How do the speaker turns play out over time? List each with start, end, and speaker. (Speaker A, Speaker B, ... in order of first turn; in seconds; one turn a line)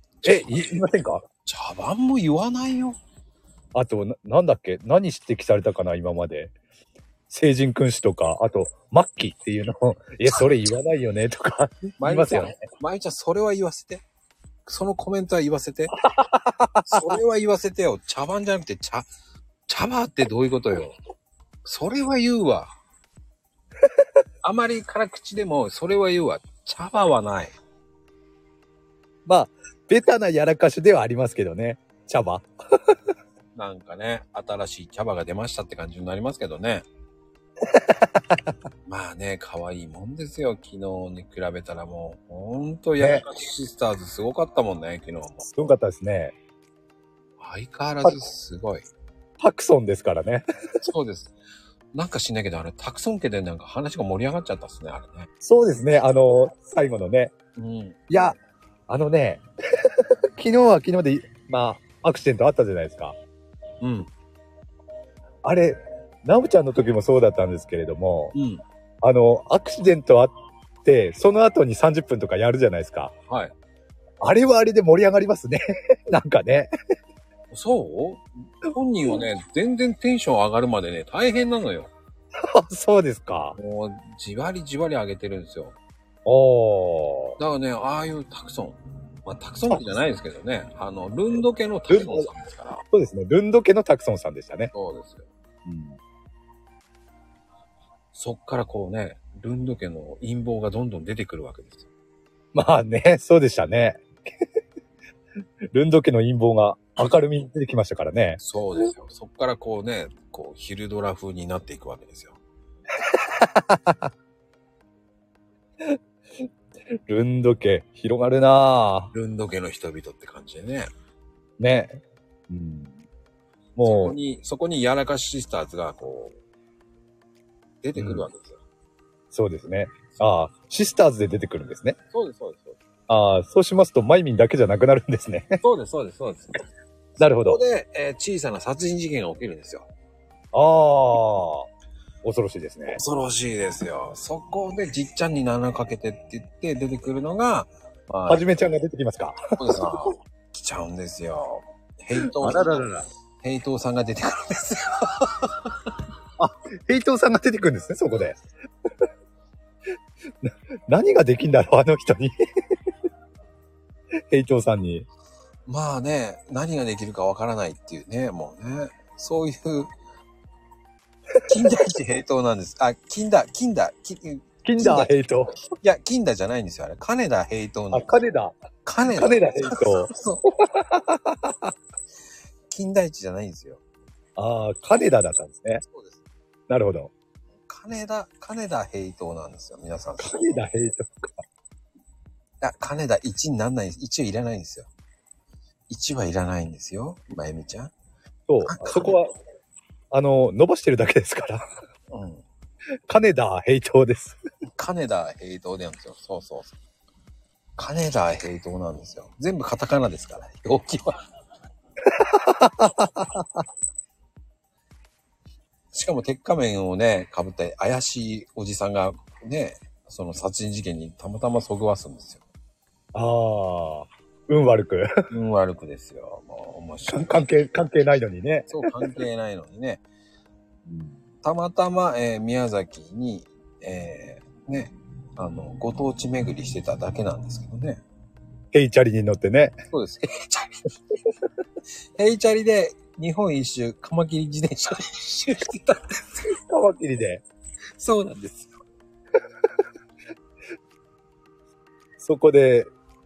Speaker A: 0.2-0.7
Speaker B: 0.2-1.2
Speaker A: 1.4-3.0
Speaker B: 3.7-6.5
Speaker B: 7.3-12.6
Speaker A: 12.0-14.1
Speaker A: 14.7-16.0
Speaker B: 16.0-17.2
Speaker A: 16.8-19.1
Speaker A: 19.7-21.0
Speaker A: 21.6-22.8
Speaker A: 24.4-27.6
Speaker B: 29.3-32.5
Speaker A: 33.6-36.9
Speaker B: 37.7-38.5
Speaker A: 38.9-45.5
Speaker B: 43.0-43.2
Speaker B: 45.5-46.4
Speaker A: 47.4-48.9
Speaker B: 49.4-50.5
Speaker A: 50.8-51.4
Speaker A: 51.9-55.3
Speaker B: 55.4-57.3
Speaker A: 57.6-58.0
Speaker B: 58.1-58.4
Speaker B: 58.9-63.2
Speaker A: 63.8-64.1
Speaker B: 65.4-68.3
Speaker A: 68.3-68.6
Speaker B: 69.0-70.3
Speaker B: 70.8-73.1
Speaker A: 73.3-73.5
Speaker B: 74.2-76.7
Speaker A: 77.5-81.9
Speaker B: 82.4-83.6
Speaker A: 83.6-85.8
Speaker B: 86.2-87.4
Speaker A: 87.4-92.8
Speaker B: 91.9-92.3
Speaker B: 92.9-94.7
Speaker A: 94.7-95.3
Speaker B: 95.7-96.0
Speaker A: 98.1-101.9
Speaker B: 102.5-104.5
Speaker B: 105.7-108.4
Speaker A: 108.4-112.4
Speaker B: 113.1-114.1
Speaker B: 117.1-119.1
Speaker A: 119.1-120.9
Speaker B: 121.6-123.0
Speaker B: 123.8-124.2
Speaker A: 123.8-126.4
Speaker A: 127.8-128.6
Speaker B: 128.0-128.3
Speaker B: 129.3-132.0
Speaker A: 132.1-132.8
Speaker B: 133.1-135.6
Speaker A: 135.6-136.6
Speaker A: 137.2-139.9
Speaker B: 137.2-137.6
Speaker B: 140.5-141.7
Speaker B: 142.2-143.0
Speaker A: 142.9-148.4
Speaker B: 148.3-149.9
Speaker A: 149.6-152.9
Speaker B: 152.2-153.1
Speaker A: 153.4-155.7
Speaker B: 156.4-158.4
Speaker B: 160.4-162.3
Speaker B: 164.3-165.1
Speaker A: 165.7-169.9
Speaker A: 171.5-175.1
Speaker B: 174.6-175.6
Speaker A: 175.8-178.1
Speaker B: 177.9-178.6
Speaker A: 178.8-180.5
Speaker B: 179.1-180.1
Speaker B: 180.7-181.7
Speaker A: 182.7-183.8
Speaker B: 184.4-185.8
Speaker A: 185.8-186.2
Speaker B: 186.7-187.1
Speaker A: 187.7-190.6
Speaker B: 190.2-191.4
Speaker A: 192.6-194.9
Speaker A: 195.9-197.9
Speaker B: 198.5-199.3
Speaker A: 198.7-199.2
Speaker B: 200.1-201.7
Speaker A: 202.1-202.4
Speaker B: 203.1-204.4
Speaker A: 204.8-206.8
Speaker A: 207.8-211.2
Speaker B: 212.1-213.6
Speaker A: 215.9-222.4
Speaker B: 223.1-225.1
Speaker A: 225.3-227.5
Speaker B: 227.1-229.2
Speaker A: 228.7-230.0
Speaker B: 230.9-231.2
Speaker A: 231.4-238.0
Speaker B: 238.7-239.8
Speaker A: 239.9-240.8
Speaker A: 242.2-246.5
Speaker B: 246.6-247.4
Speaker A: 248.0-248.7
Speaker B: 252.2-252.9